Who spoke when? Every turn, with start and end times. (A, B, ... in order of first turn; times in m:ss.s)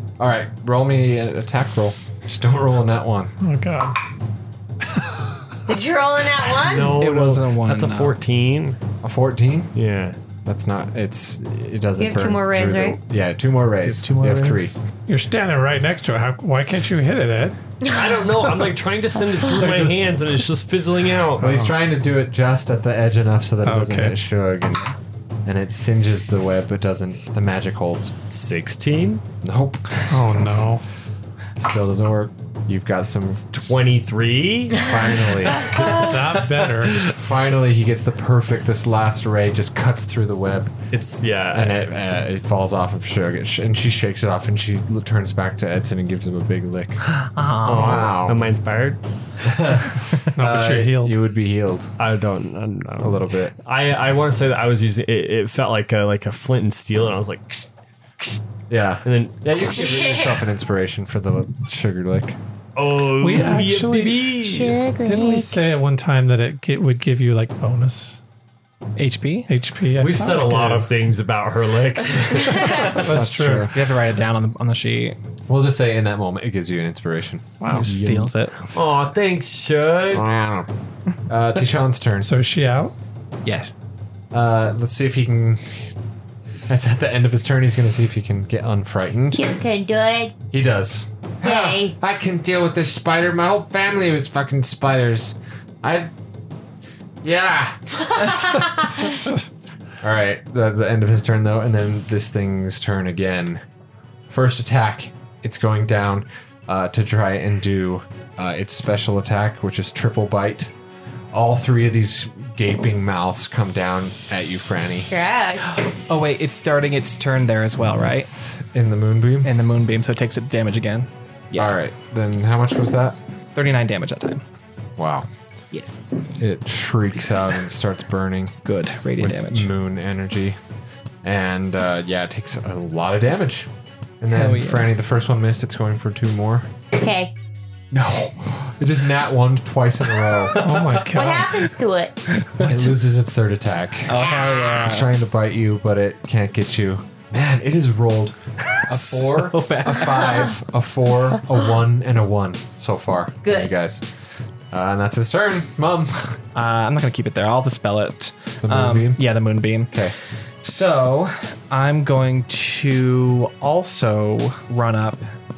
0:00.2-0:03.3 A
0:03.4-0:04.0 B
0:05.7-0:07.0 C
0:06.6-0:08.8 D
0:06.9-0:08.2 E
0:09.0-0:09.7 A
0:09.7-0:10.2 D
0:10.4-0:14.8 A
0:12.0-0:13.0 C
0:13.8-0:14.8 E
0:15.1-0:17.6 B
0:17.9-0:21.7 D
0:19.6-0:20.0 E
0:21.4-0:24.9 A
0:23.6-0:24.2 B
0:25.4-0:28.1 A
0:28.3-0:29.2 D
0:29.4-0:30.4 A
0:30.1-0:30.8 B
0:31.6-0:33.8 A
0:33.5-0:35.0 D
0:34.8-0:36.2 A
0:35.9-0:37.1 B
0:37.0-0:40.7 A
0:40.9-0:41.9 D
0:41.5-0:47.0 A
0:47.1-0:48.1 E
0:47.6-0:49.0 D
0:47.6-0:48.5 A
0:49.4-0:51.9 A
0:50.3-0:51.2 B
0:52.0-0:58.4 D
0:53.0-0:53.5 A
0:58.7-1:02.4 A
0:59.0-1:00.0 D
0:59.6-1:00.4 C
1:02.8-1:04.8 D
1:03.2-1:08.2 B
1:04.4-1:05.6 C
1:09.0-1:09.5 E
1:09.5-1:10.9 B
1:10.0-1:13.0 D
1:12.3-1:12.9 C
1:12.8-1:13.7 B
1:13.0-1:13.8 A
1:13.6-1:15.2 E
1:15.5-1:17.6 A
1:17.6-1:17.9 B
1:17.7-1:18.6 E
1:17.8-1:20.3 D
1:20.1-1:20.7 A
1:21.3-1:22.3 A
1:22.2-1:22.9 B
1:23.4-1:23.7 E
1:24.3-1:25.9 A
1:26.7-1:29.4 A
1:29.3-1:30.3 C
1:30.5-1:36.1 A
1:31.4-1:31.9 C
1:37.2-1:38.4 A
1:38.1-1:39.1 C
1:40.0-1:43.6 A
1:44.3-1:50.7 A
1:51.3-1:55.1 A
1:55.1-1:55.8 C
1:56.1-1:58.3 E
1:58.7-1:59.5 A
1:59.4-2:01.7 E
2:01.5-2:03.2 A
2:03.5-2:04.4 E
2:05.0-2:05.3 A
2:06.4-2:08.6 A
2:08.6-2:09.7 E
2:09.2-2:10.6 A
2:11.2-2:13.7 A
2:14.2-2:16.7 A
2:14.3-2:14.8 E
2:16.9-2:17.3 C
2:17.9-2:20.6 A
2:20.2-2:21.1 E
2:20.5-2:21.7 B
2:21.1-2:22.2 C
2:22.3-2:22.9 E
2:22.6-2:34.0 A
2:24.1-2:25.1 E
2:24.2-2:24.8 C
2:28.7-2:30.4 E
2:30.2-2:30.5 C
2:33.4-2:33.7 C
2:34.7-2:36.4 A
2:36.5-2:40.0 E
2:38.6-2:39.2 A
2:39.9-2:40.2 A
2:40.6-2:45.3 E